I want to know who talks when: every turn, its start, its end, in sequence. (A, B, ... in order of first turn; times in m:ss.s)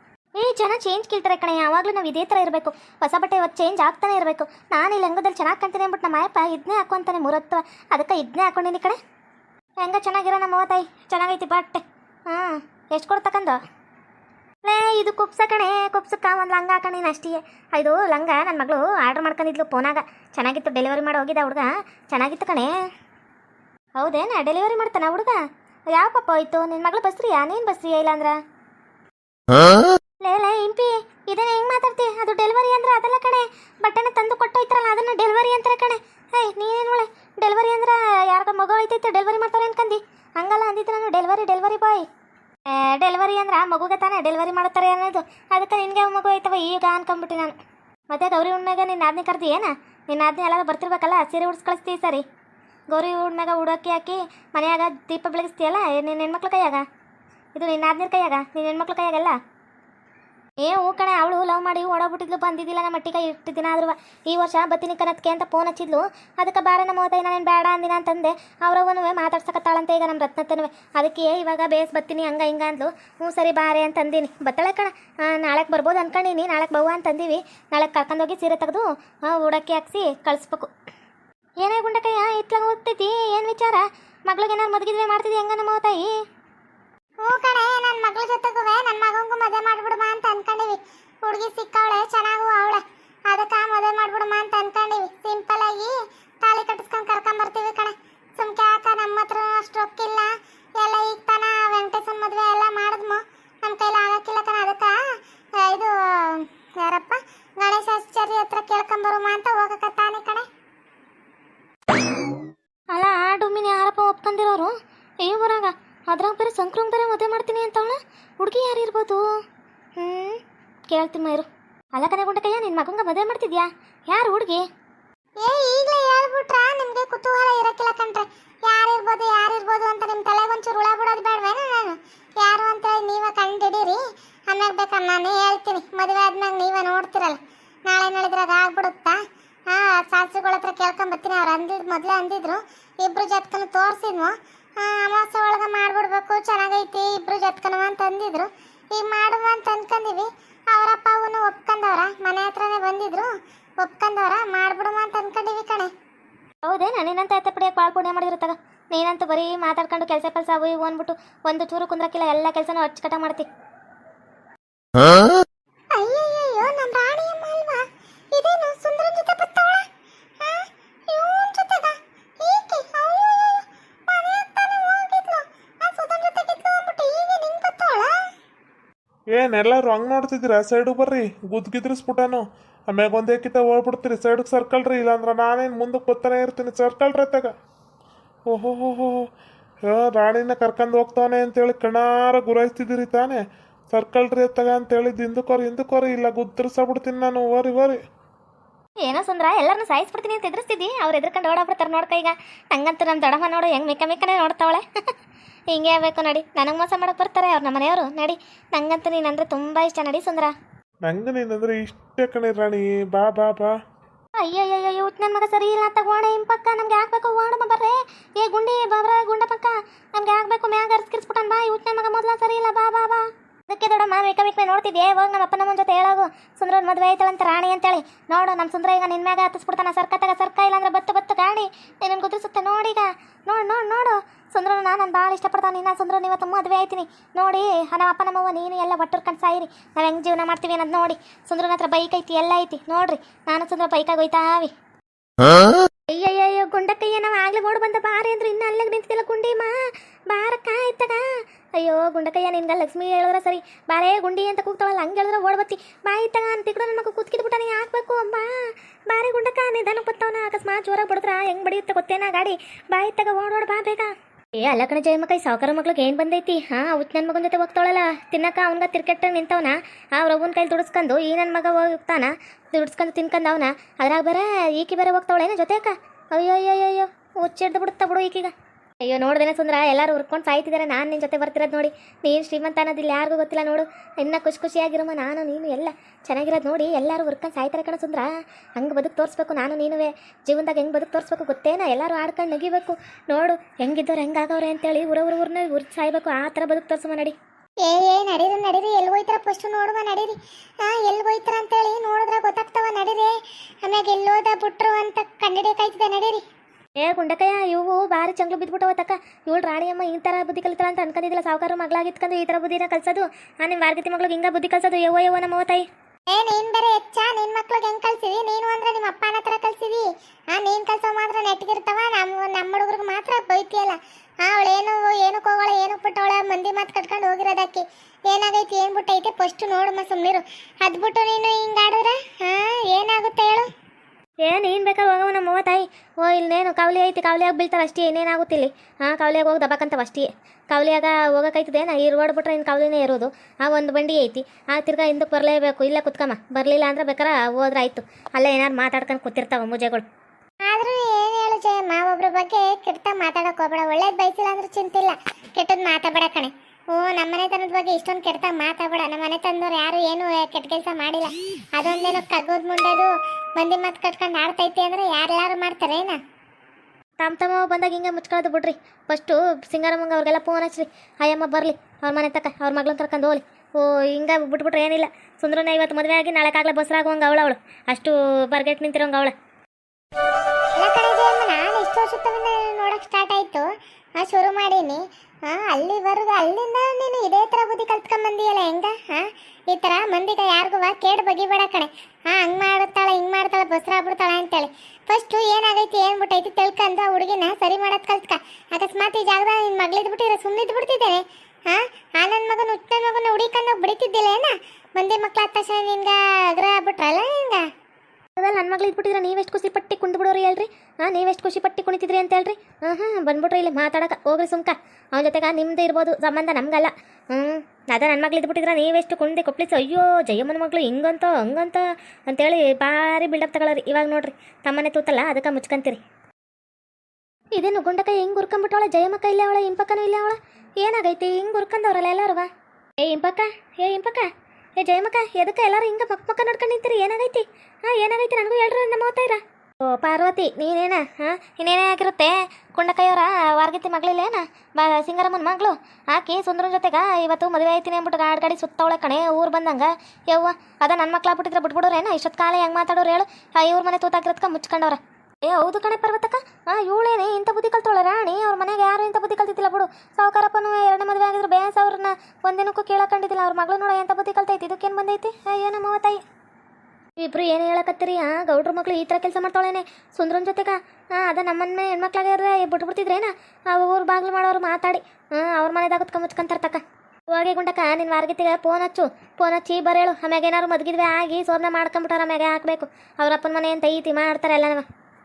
0:00.4-0:09.0 A
0:09.8-0:13.6 A
0:14.6-0:22.7 A
0:24.0-0:25.4 A
0:25.9-0:28.4 A
0:30.2-0:42.0 A
0:42.7-0:47.6 A
0:48.1-0:52.2 A
0:52.9-0:56.8 A
0:57.5-0:59.4 A
1:00.6-1:20.7 A
1:21.6-1:26.1 A
1:27.2-1:45.0 B
1:45.6-1:50.4 B
1:52.9-1:59.4 A
2:00.0-2:04.6 A
2:05.4-2:35.9 B
2:36.6-2:43.5 A
2:45.9-2:49.8 B
2:50.4-2:58.1 B
2:59.3-3:07.5 C
3:08.5-3:09.2 C
3:09.9-3:18.0 C
3:19.0-3:25.1 A
3:25.7-3:30.5 A
3:31.0-3:33.8 C
3:34.4-4:04.7 A
4:06.1-4:09.8 A
4:10.3-4:11.2 A
4:11.8-4:38.5 A
4:39.0-4:57.3 A
4:57.8-5:06.4 B
5:07.0-5:15.8 A
5:16.3-5:33.7 B
5:34.4-5:50.0 A
5:50.7-6:06.2 B
6:07.2-6:19.3 A
6:20.8-6:47.6 B
6:48.4-7:06.0 A
7:07.6-7:12.5 A
7:13.0-7:14.3 A
7:14.8-7:46.2 A
7:47.2-8:04.8 A